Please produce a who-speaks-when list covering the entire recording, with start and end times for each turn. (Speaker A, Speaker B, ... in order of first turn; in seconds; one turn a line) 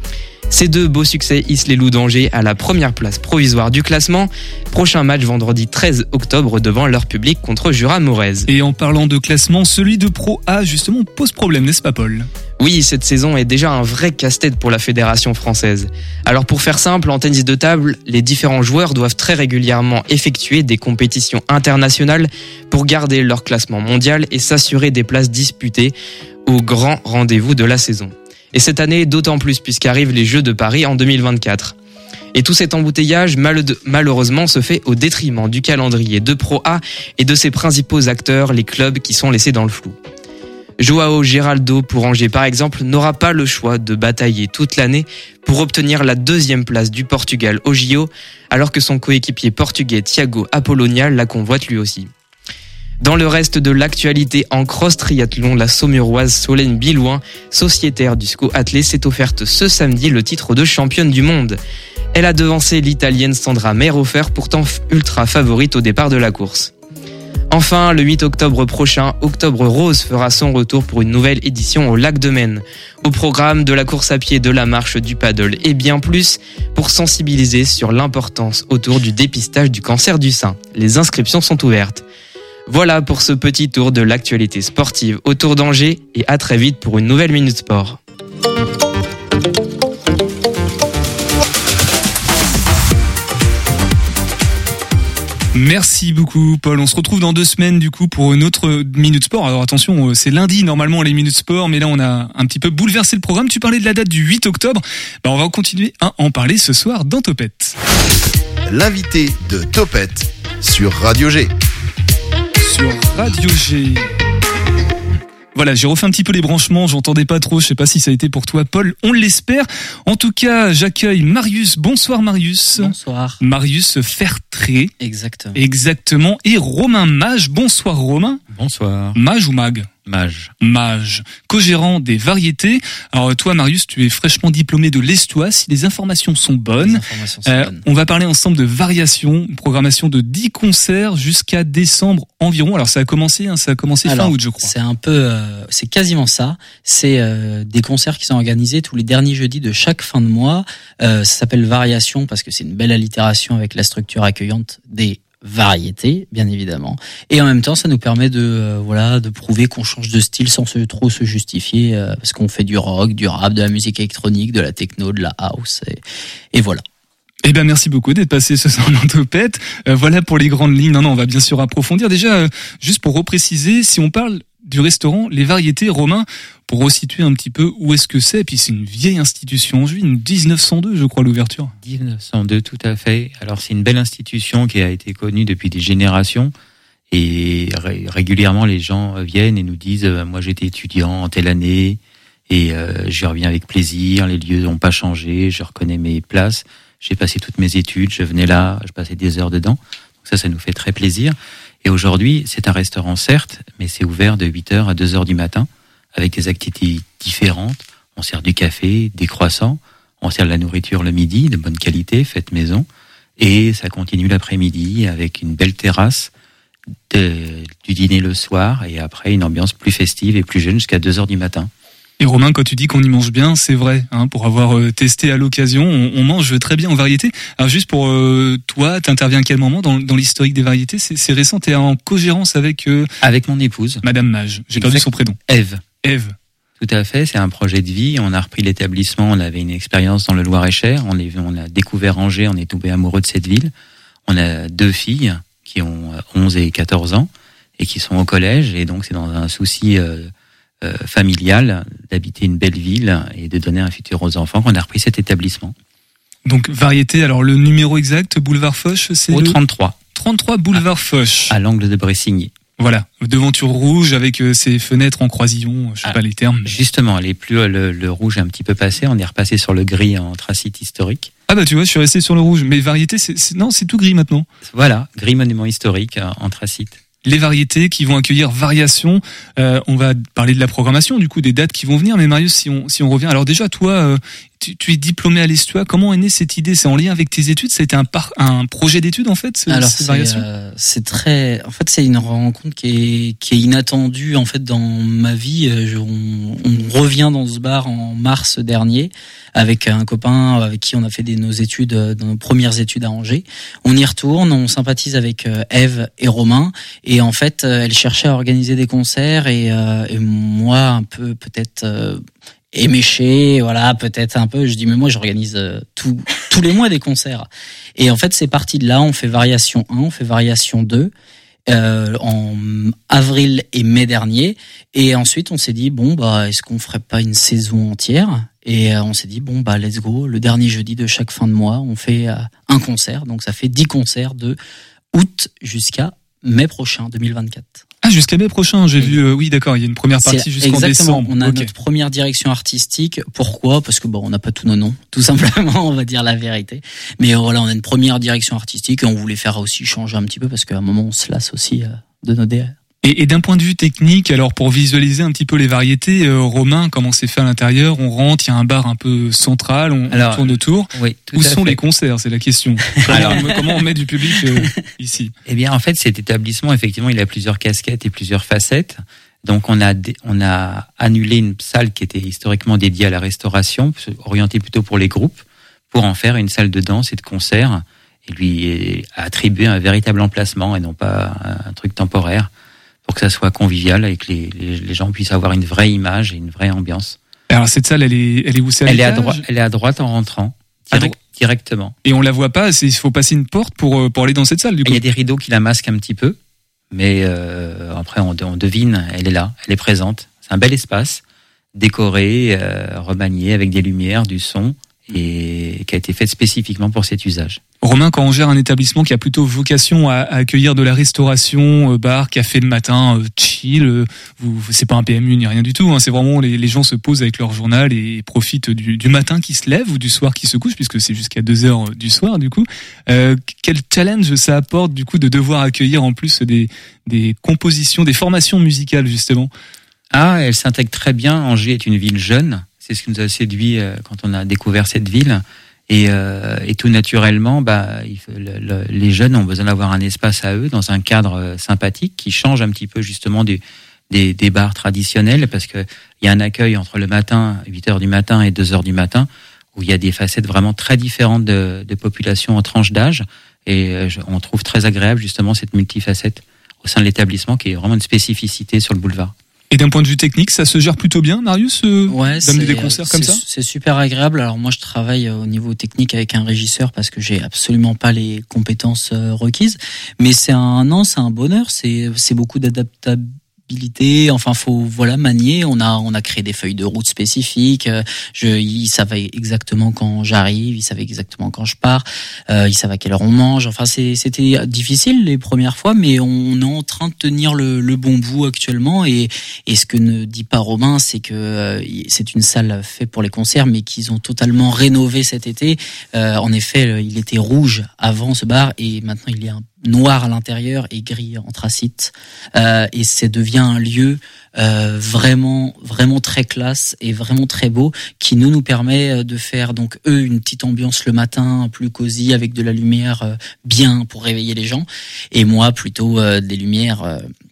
Speaker A: 0.5-8.5
Speaker B: 8.5-12.3
Speaker A: 12.6-25.9
Speaker A: 26.5-31.8
Speaker A: 32.3-40.0
Speaker A: 40.8-52.1
Speaker A: 53.0-61.6
Speaker A: 62.1-66.7
Speaker A: 67.5-82.0
Speaker A: 82.7-88.0
Speaker B: 95.5-107.8
Speaker C: 108.7-111.5
Speaker B: 112.6-114.1
Speaker B: 115.5-124.9
Speaker D: 122.8-123.4
Speaker D: 125.0-125.6
Speaker B: 125.5-128.4
Speaker E: 128.5-129.2
Speaker B: 129.2-129.9
Speaker E: 130.1-130.5
Speaker B: 130.6-144.7
Speaker D: 136.8-137.8
Speaker D: 144.1-166.0
Speaker D: 166.5-166.8
Speaker B: 167.4-181.7
Speaker E: 181.8-186.5
Speaker E: 187.1-216.3
Speaker E: 217.1-221.7
Speaker B: 222.2-233.1
Speaker E: 233.2-234.0
Speaker B: 234.0-235.4
Speaker E: 234.7-235.8
Speaker B: 236.0-236.3
Speaker E: 236.8-243.7
Speaker E: 244.3-250.3
Speaker E: 250.8-255.8
Speaker B: 256.4-259.6
Speaker E: 259.3-260.0
Speaker B: 260.1-261.5
Speaker E: 261.5-262.6
Speaker B: 262.8-266.8
Speaker E: 266.0-271.3
Speaker B: 271.5-274.5
Speaker E: 274.6-277.0
Speaker B: 277.2-290.5
Speaker D: 289.7-321.1
Speaker D: 321.7-334.6
Speaker D: 335.1-337.8
Speaker B: 338.0-341.7
Speaker D: 340.2-352.8
Speaker B: 353.0-365.3
Speaker E: 360.1-361.8
Speaker E: 362.9-364.7
Speaker E: 365.4-382.5
Speaker E: 383.1-387.2
Speaker B: 387.5-389.4
Speaker E: 388.9-391.9
Speaker B: 392.0-395.0
Speaker E: 394.9-396.4
Speaker E: 396.9-401.2
Speaker E: 401.8-407.6
Speaker B: 407.8-429.5
Speaker E: 430.1-459.3
Speaker B: 459.7-463.4
Speaker D: 462.1-517.3